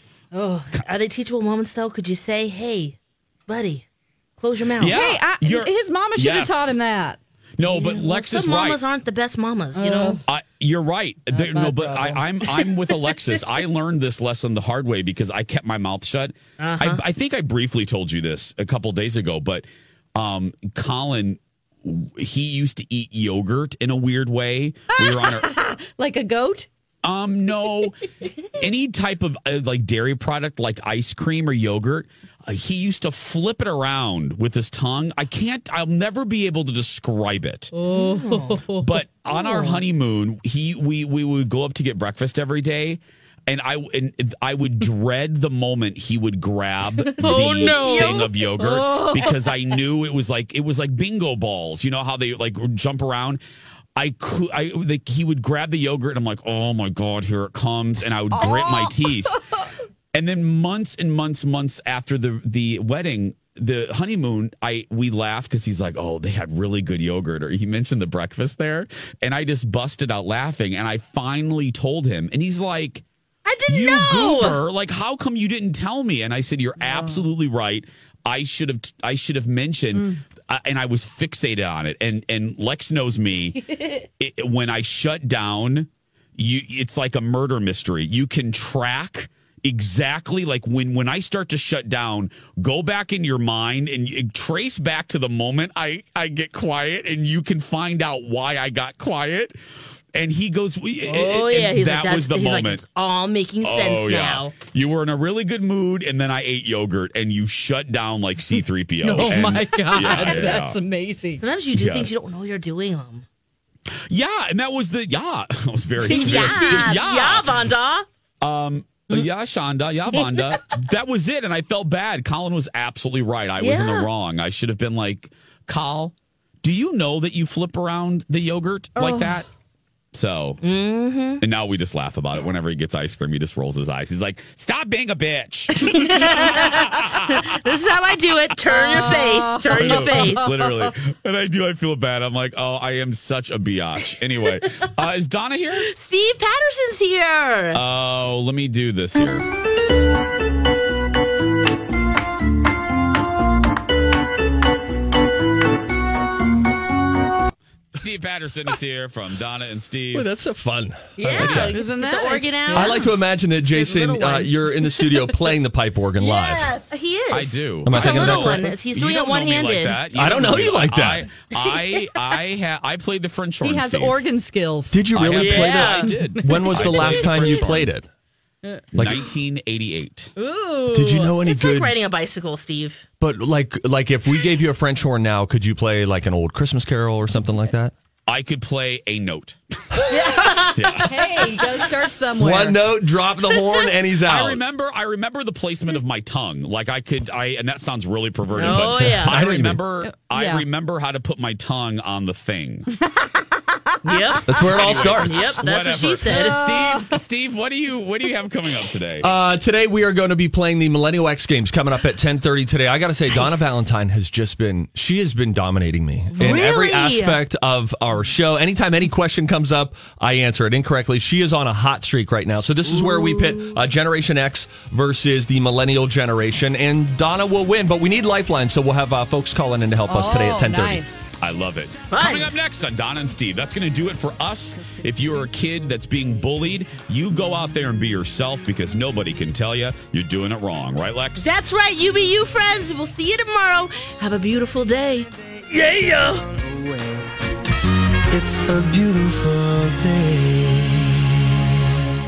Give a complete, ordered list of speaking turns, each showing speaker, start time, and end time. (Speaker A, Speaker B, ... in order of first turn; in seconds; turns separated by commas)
Speaker A: 0.3-3.8, Speaker A: 4.4-5.0, Speaker B: 4.8-6.8, Speaker C: 4.9-7.2, Speaker B: 7.6-8.8, Speaker A: 7.7-10.2, Speaker C: 9.8-10.2, Speaker B: 10.3-25.5, Speaker C: 11.3-12.2, Speaker A: 16.6-17.0, Speaker C: 25.0-26.7, Speaker B: 27.0-28.0, Speaker B: 28.6-37.7, Speaker C: 37.7-39.8, Speaker A: 37.9-38.6, Speaker B: 38.8-53.4, Speaker C: 47.1-49.3, Speaker A: 47.2-49.4, Speaker B: 54.0-59.4, Speaker C: 58.3-59.1, Speaker B: 60.1-73.0, Speaker A: 73.5-74.6, Speaker B: 73.7-99.5, Speaker C: 76.8-77.2, Speaker C: 79.9-80.2, Speaker B: 100.1-102.8, Speaker A: 101.0-104.5, Speaker B: 103.6-110.8, Speaker C: 109.0-111.4, Speaker A: 110.0-110.5, Speaker A: 111.4-113.2, Speaker B: 111.8-112.1, Speaker B: 114.1-117.6, Speaker A: 116.1-118.0, Speaker B: 118.4-129.5, Speaker A: 120.1-120.4, Speaker A: 123.6-124.1, Speaker C: 129.0-129.4, Speaker B: 130.1-130.6, Speaker A: 130.6-131.4, Speaker B: 131.4-137.6, Speaker A: 135.9-136.8, Speaker A: 137.3-140.4, Speaker C: 138.7-140.9, Speaker B: 139.7-145.9, Speaker A: 145.9-147.8, Speaker B: 147.7-149.4, Speaker B: 157.9-160.3, Speaker D: 160.1-161.7, Speaker A: 161.2-163.2, Speaker C: 161.4-164.8, Speaker B: 161.4-161.7, Speaker D: 162.7-166.8, Speaker A: 166.2-170.0, Speaker C: 166.3-166.9, Speaker B: 167.3-174.2, Speaker D: 167.8-168.7, Speaker D: 170.1-171.3, Speaker C: 173.6-175.1, Speaker D: 174.9-178.1, Speaker B: 175.1-177.9, Speaker A: 175.3-176.1, Speaker C: 176.1-177.6, Speaker D: 178.9-179.2, Speaker B: 178.9-180.3, Speaker C: 180.3-181.0, Speaker A: 180.9-183.1, Speaker D: 180.9-181.9, Speaker D: 183.2-187.9, Speaker B: 188.3-189.6, Speaker A: 190.1-191.0, Speaker B: 190.8-191.2, Speaker C: 191.1-192.9, Speaker D: 192.3-194.6, Speaker A: 193.5-193.9, Speaker B: 194.3-202.9, Speaker A: 198.5-199.6, Speaker D: 199.1-199.8, Speaker C: 200.0-200.6, Speaker C: 203.0-203.9, Speaker A: 204.0-206.7, Speaker D: 204.4-205.6, Speaker B: 204.6-209.3, Speaker C: 206.3-207.0, Speaker D: 209.2-231.1, Speaker A: 213.3-213.8, Speaker A: 216.3-217.4, Speaker A: 222.8-223.7, Speaker C: 230.1-231.3, Speaker B: 231.4-241.5, Speaker A: 232.1-232.5, Speaker A: 241.4-246.4, Speaker E: 248.3-251.2